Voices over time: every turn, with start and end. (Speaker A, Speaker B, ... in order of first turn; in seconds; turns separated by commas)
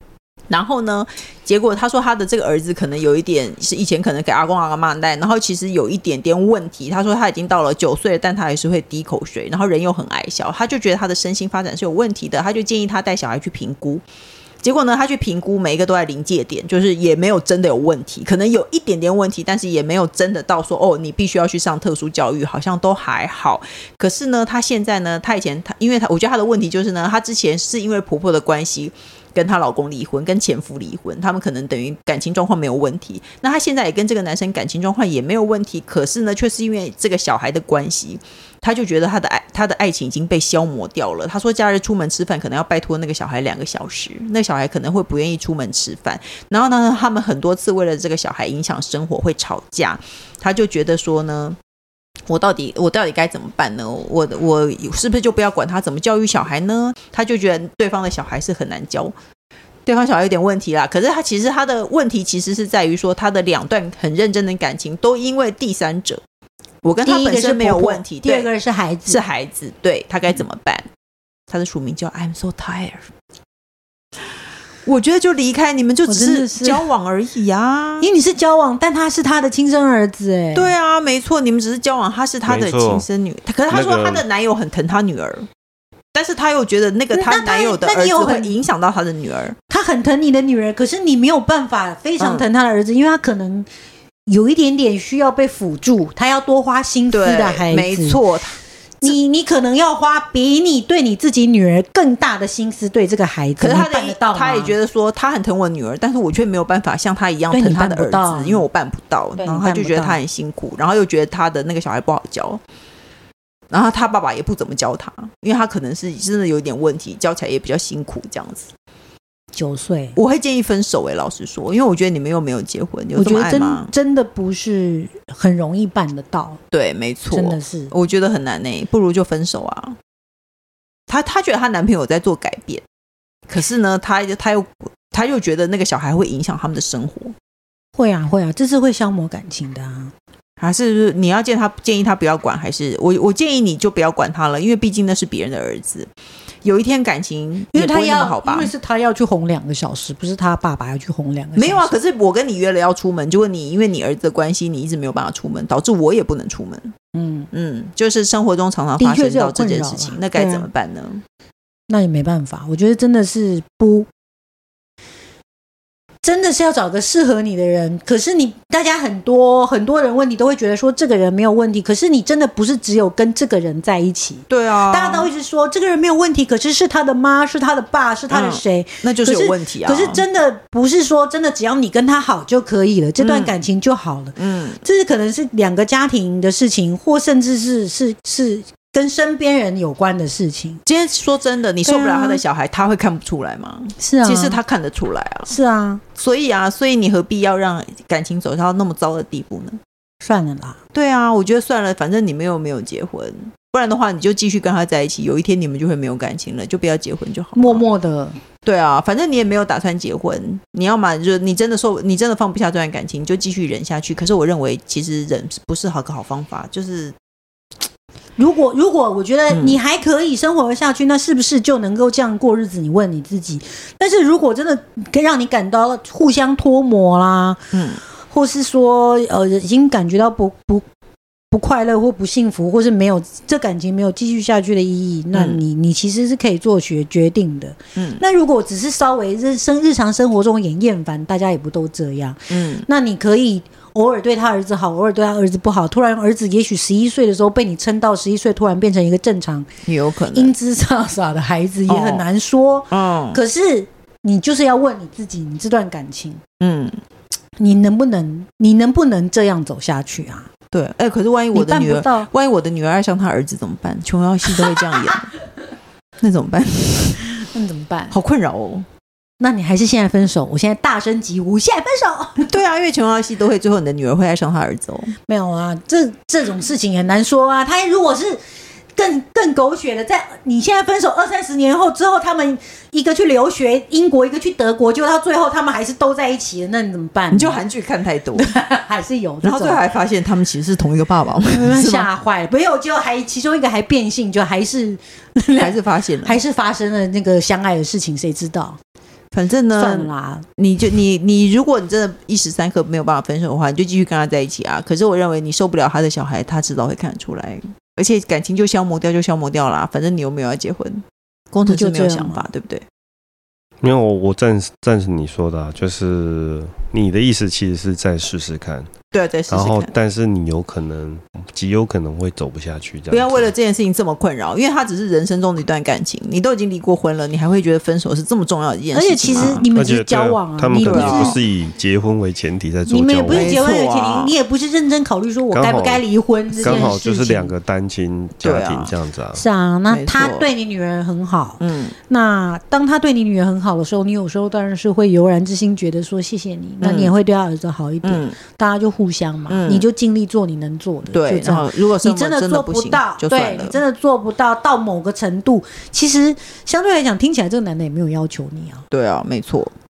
Speaker A: 0.5-14.0, Speaker A: 14.6-51.6, Speaker A: 52.3-59.1, Speaker A: 59.9-66.2, Speaker A: 66.8-68.5, Speaker B: 67.0-69.2, Speaker A: 69.1-70.9, Speaker A: 71.5-73.1, Speaker A: 74.9-78.1, Speaker B: 76.1-76.9, Speaker B: 78.0-80.7, Speaker A: 80.5-85.5, Speaker C: 82.5-83.1, Speaker C: 83.7-84.2, Speaker A: 86.1-89.6, Speaker B: 87.1-88.6, Speaker B: 89.7-93.7, Speaker A: 92.2-92.5, Speaker B: 94.3-98.2, Speaker A: 97.1-99.2, Speaker B: 99.0-104.7, Speaker A: 103.6-112.6, Speaker B: 107.5-108.7, Speaker B: 109.4-110.2, Speaker A: 113.7-118.7, Speaker B: 119.5-120.2, Speaker A: 120.2-123.9, Speaker B: 123.2-126.6, Speaker A: 126.7-130.0, Speaker B: 127.3-127.9, Speaker A: 131.1-132.8, Speaker A: 133.5-137.3, Speaker B: 138.0-140.1, Speaker A: 140.6-146.1, Speaker A: 146.6-148.7, Speaker B: 147.7-151.9, Speaker A: 151.6-156.9, Speaker B: 157.1-157.5, Speaker A: 157.5-161.2, Speaker B: 159.0-160.7, Speaker B: 161.9-164.1, Speaker B: 166.2-190.8, Speaker A: 174.5-175.3, Speaker A: 178.3-180.2, Speaker A: 183.2-183.5, Speaker A: 184.4-184.8, Speaker A: 190.9-195.5, Speaker B: 191.8-192.4, Speaker B: 194.0-194.6, Speaker B: 195.5-196.0, Speaker A: 196.2-199.8, Speaker B: 200.2-200.8, Speaker A: 200.9-207.8, Speaker B: 207.6-208.4, Speaker A: 208.6-217.2, Speaker B: 218.4-227.6, Speaker A: 219.5-219.8, Speaker A: 227.7-228.0, Speaker B: 228.3-230.8, Speaker B: 231.5-249.7, Speaker A: 235.3-235.6, Speaker A: 238.0-238.2, Speaker A: 242.5-242.9, Speaker A: 249.9-250.5, Speaker B: 250.3-256.4, Speaker A: 251.9-252.2, Speaker A: 252.9-253.4, Speaker A: 256.6-257.0, Speaker B: 257.6-260.5, Speaker A: 260.7-265.3, Speaker B: 261.5-262.3, Speaker B: 264.5-265.2, Speaker A: 266.2-267.4, Speaker B: 267.4-268.1, Speaker A: 268.1-268.9, Speaker B: 269.4-272.5, Speaker A: 272.4-275.1, Speaker B: 275.2-278.4, Speaker B: 279.0-287.6, Speaker A: 287.3-288.6, Speaker B: 288.4-289.8, Speaker A: 289.4-292.1, Speaker B: 291.4-298.8, Speaker A: 295.6-296.4, Speaker A: 299.3-312.9, Speaker B: 299.8-300.5, Speaker B: 311.7-312.5, Speaker C: 313.8-318.9, Speaker A: 319.1-319.9, Speaker C: 319.5-323.5, Speaker A: 323.1-329.7, Speaker B: 328.9-331.4, Speaker C: 329.7-333.6, Speaker A: 330.8-331.4, Speaker B: 332.9-337.5, Speaker A: 333.3-334.3, Speaker C: 335.5-339.4, Speaker A: 336.6-336.9, Speaker A: 338.4-338.9, Speaker B: 339.4-358.8, Speaker A: 339.9-340.5, Speaker A: 341.6-341.9, Speaker A: 346.8-347.1, Speaker A: 348.0-348.4, Speaker A: 349.5-349.9, Speaker A: 351.1-353.8, Speaker A: 358.9-359.7